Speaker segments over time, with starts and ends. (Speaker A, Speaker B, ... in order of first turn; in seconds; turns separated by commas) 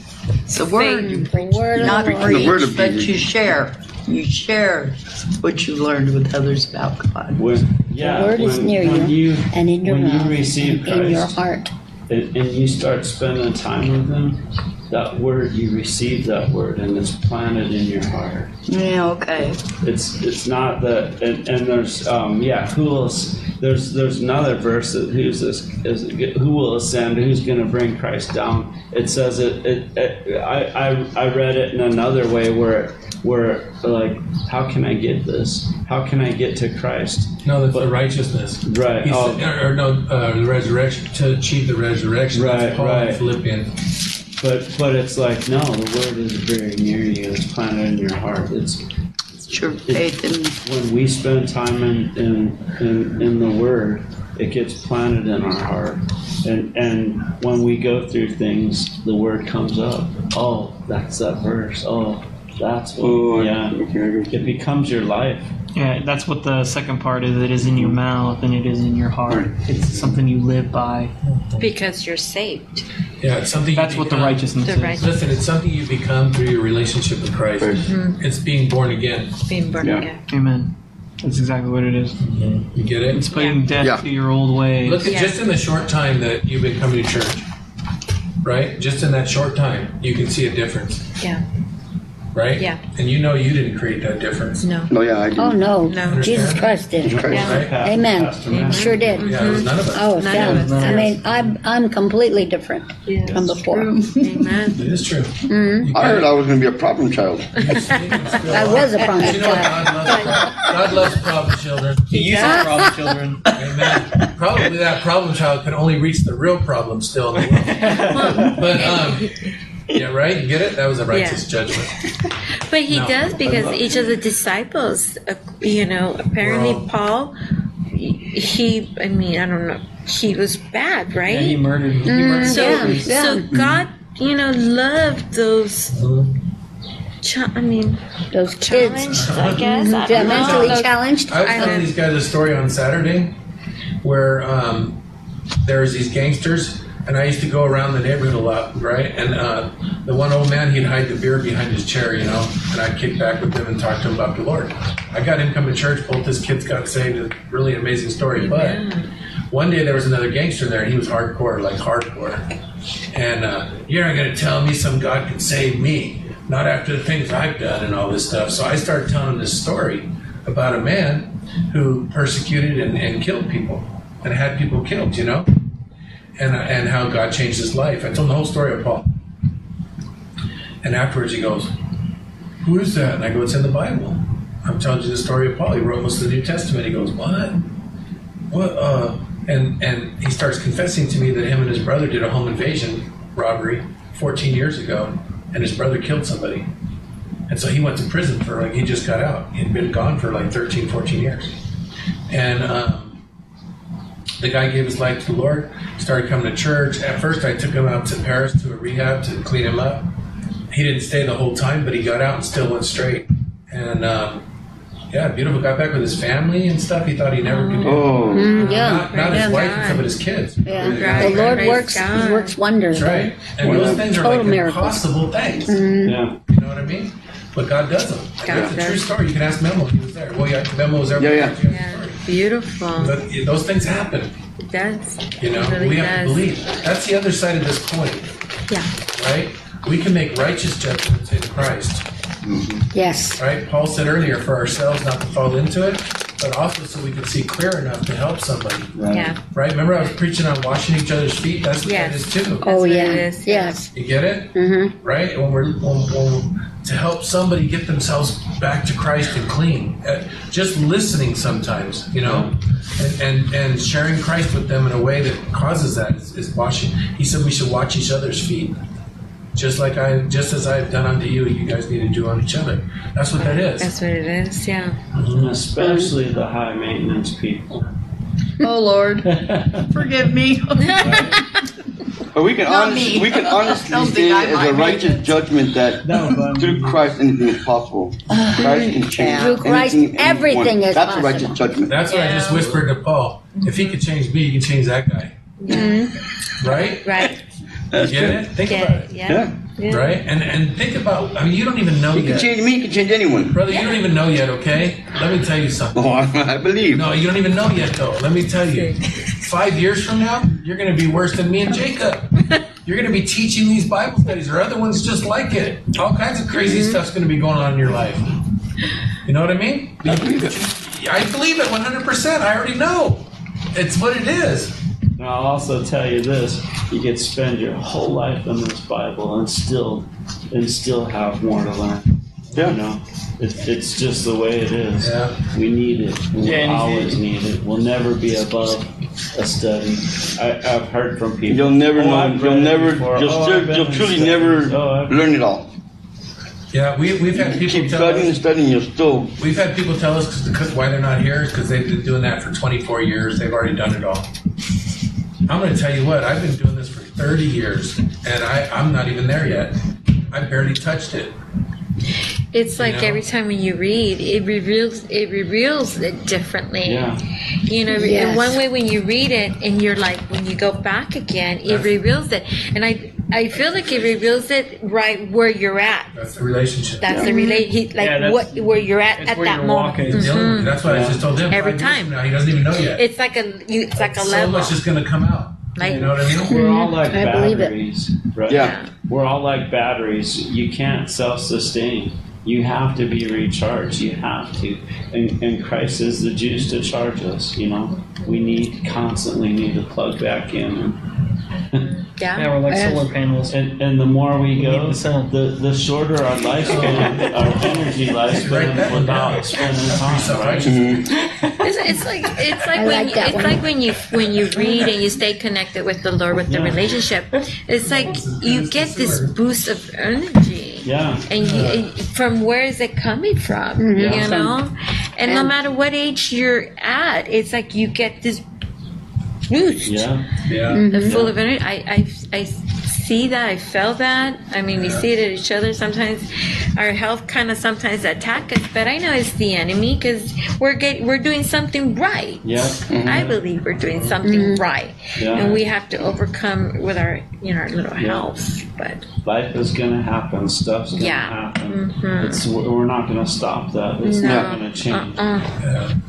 Speaker A: 0.5-7.5, Speaker B: 0.7-1.2, Speaker C: 0.8-2.5, Speaker D: 1.9-3.2, Speaker E: 7.3-11.4, Speaker C: 8.0-11.7, Speaker E: 12.1-18.5, Speaker A: 18.7-19.6, Speaker E: 19.7-37.9, Speaker F: 37.5-43.7, Speaker E: 38.6-39.5, Speaker E: 42.3-43.2, Speaker E: 44.4-48.8, Speaker A: 49.5-50.6, Speaker E: 49.9-63.8, Speaker D: 63.0-64.6, Speaker E: 64.3-65.5, Speaker G: 65.8-71.1, Speaker B: 71.6-72.8, Speaker F: 73.2-79.4, Speaker G: 73.7-75.0, Speaker B: 74.6-75.1, Speaker B: 77.8-78.2, Speaker B: 79.5-80.2, Speaker D: 79.8-80.1, Speaker G: 80.3-82.2, Speaker F: 82.2-83.2, Speaker G: 83.1-85.1, Speaker B: 83.3-83.7, Speaker D: 83.8-84.0, Speaker F: 84.8-87.5, Speaker B: 85.0-85.4, Speaker F: 88.4-91.0, Speaker F: 92.3-94.7, Speaker B: 94.6-94.9, Speaker D: 94.9-95.7, Speaker C: 95.4-103.9, Speaker B: 95.8-97.8, Speaker F: 96.0-97.8, Speaker D: 97.0-97.5, Speaker E: 97.1-99.2, Speaker B: 98.5-101.2, Speaker F: 99.2-100.2, Speaker G: 100.3-101.1, Speaker B: 103.1-103.5, Speaker A: 103.5-104.5, Speaker B: 104.2-104.8, Speaker F: 104.8-106.4, Speaker C: 105.5-105.9, Speaker D: 105.9-107.6, Speaker F: 107.5-112.6, Speaker B: 107.7-108.2, Speaker C: 108.4-110.2, Speaker B: 108.8-110.7, Speaker G: 112.1-113.5, Speaker B: 112.3-112.7, Speaker C: 112.4-112.9, Speaker F: 113.5-119.3, Speaker G: 117.4-118.6, Speaker B: 118.1-119.5, Speaker F: 119.9-122.0, Speaker B: 121.1-121.5, Speaker B: 122.7-127.3, Speaker F: 122.9-123.5, Speaker F: 126.4-126.9, Speaker B: 127.9-131.6, Speaker G: 131.3-133.2, Speaker C: 132.1-133.5, Speaker B: 132.4-136.0, Speaker D: 133.6-133.8, Speaker F: 135.9-136.4, Speaker B: 137.2-141.9, Speaker C: 138.3-141.8, Speaker F: 139.1-143.4, Speaker F: 144.0-145.0, Speaker F: 145.6-158.8, Speaker B: 158.3-159.1, Speaker F: 159.5-162.5, Speaker F: 163.1-175.5, Speaker F: 176.4-179.1, Speaker F: 180.8-181.7, Speaker F: 182.6-187.7, Speaker F: 188.5-196.7, Speaker F: 197.5-201.5, Speaker F: 202.3-203.2, Speaker F: 204.4-210.1, Speaker F: 210.7-214.4, Speaker F: 215.1-222.0, Speaker B: 217.4-220.1, Speaker D: 217.8-218.5, Speaker C: 218.3-219.7, Speaker C: 220.7-225.1, Speaker B: 220.8-222.6, Speaker F: 222.9-225.8, Speaker D: 223.6-224.0, Speaker C: 225.7-226.2, Speaker E: 226.0-226.4, Speaker F: 226.5-232.2, Speaker B: 228.4-229.1, Speaker D: 228.5-228.8, Speaker D: 231.2-231.6, Speaker B: 231.7-233.2, Speaker F: 232.9-234.4, Speaker B: 234.6-236.5, Speaker F: 235.4-238.3, Speaker F: 239.1-242.1, Speaker E: 242.4-242.9, Speaker C: 242.9-243.4, Speaker F: 243.4-252.7, Speaker E: 248.9-249.3, Speaker B: 249.1-249.4, Speaker B: 251.8-253.9, Speaker C: 252.6-253.9, Speaker F: 253.9-268.8, Speaker C: 254.5-254.9, Speaker E: 262.2-262.6, Speaker F: 269.5-273.9, Speaker B: 273.4-275.0, Speaker F: 275.1-275.6, Speaker E: 275.2-277.9, Speaker C: 275.8-276.1, Speaker A: 278.6-281.4, Speaker E: 279.2-280.0, Speaker B: 280.9-281.2, Speaker E: 281.0-281.4, Speaker D: 282.3-292.0, Speaker A: 282.6-285.5, Speaker E: 286.0-287.1, Speaker A: 288.3-289.7, Speaker C: 288.6-291.6, Speaker F: 291.9-295.4, Speaker B: 292.1-292.8, Speaker B: 293.6-294.0, Speaker B: 295.6-296.1, Speaker C: 295.7-296.1, Speaker F: 296.6-297.2, Speaker B: 296.7-297.4, Speaker D: 297.9-298.5, Speaker F: 297.9-299.1, Speaker B: 298.6-300.2, Speaker D: 299.3-299.5, Speaker F: 299.9-302.6, Speaker D: 302.1-303.6, Speaker F: 303.5-306.1, Speaker B: 303.7-304.0, Speaker D: 305.9-307.1, Speaker F: 306.9-318.3, Speaker B: 308.7-309.0, Speaker C: 316.5-317.0, Speaker F: 319.2-324.8, Speaker D: 320.0-320.6, Speaker E: 325.2-345.2, Speaker D: 332.6-332.8, Speaker F: 335.0-335.4, Speaker G: 336.4-337.2, Speaker D: 341.5-345.7, Speaker F: 346.7-348.4, Speaker D: 347.3-349.4, Speaker F: 349.4-354.3, Speaker F: 355.5-361.4, Speaker B: 362.5-367.1, Speaker F: 362.8-363.2, Speaker E: 366.8-367.2, Speaker B: 367.6-376.1, Speaker C: 367.9-368.6, Speaker F: 371.7-371.9, Speaker F: 373.5-374.4, Speaker F: 376.1-377.1, Speaker B: 377.0-380.8, Speaker C: 377.2-377.6, Speaker G: 378.0-380.5, Speaker F: 380.1-383.1, Speaker E: 380.7-381.3, Speaker B: 381.5-382.1, Speaker B: 382.9-384.8, Speaker F: 384.0-386.6, Speaker B: 385.8-386.2, Speaker E: 386.4-401.1, Speaker C: 386.5-387.8, Speaker D: 388.5-388.8, Speaker B: 388.5-388.9, Speaker B: 398.0-398.3, Speaker B: 401.7-402.6, Speaker G: 402.4-403.6, Speaker C: 402.7-403.0, Speaker E: 403.5-410.9, Speaker G: 404.6-405.3, Speaker F: 406.6-411.1, Speaker D: 410.6-411.1, Speaker G: 411.1-411.7, Speaker B: 411.6-428.4, Speaker C: 412.7-413.7, Speaker E: 416.5-416.8, Speaker F: 417.8-419.4, Speaker E: 420.8-421.3, Speaker F: 421.4-421.8, Speaker C: 423.8-424.6, Speaker E: 423.9-424.4, Speaker C: 425.3-425.5, Speaker B: 429.5-430.1, Speaker E: 429.9-431.4, Speaker F: 430.5-430.8, Speaker C: 430.7-431.2, Speaker B: 430.9-449.1, Speaker F: 434.7-435.1, Speaker E: 442.4-443.3, Speaker D: 442.9-443.3, Speaker F: 443.9-444.2, Speaker C: 444.2-444.6, Speaker E: 445.2-445.6, Speaker E: 448.0-448.3, Speaker E: 449.2-455.3, Speaker B: 450.9-452.5, Speaker B: 454.0-455.6, Speaker D: 454.2-454.5, Speaker F: 455.6-455.9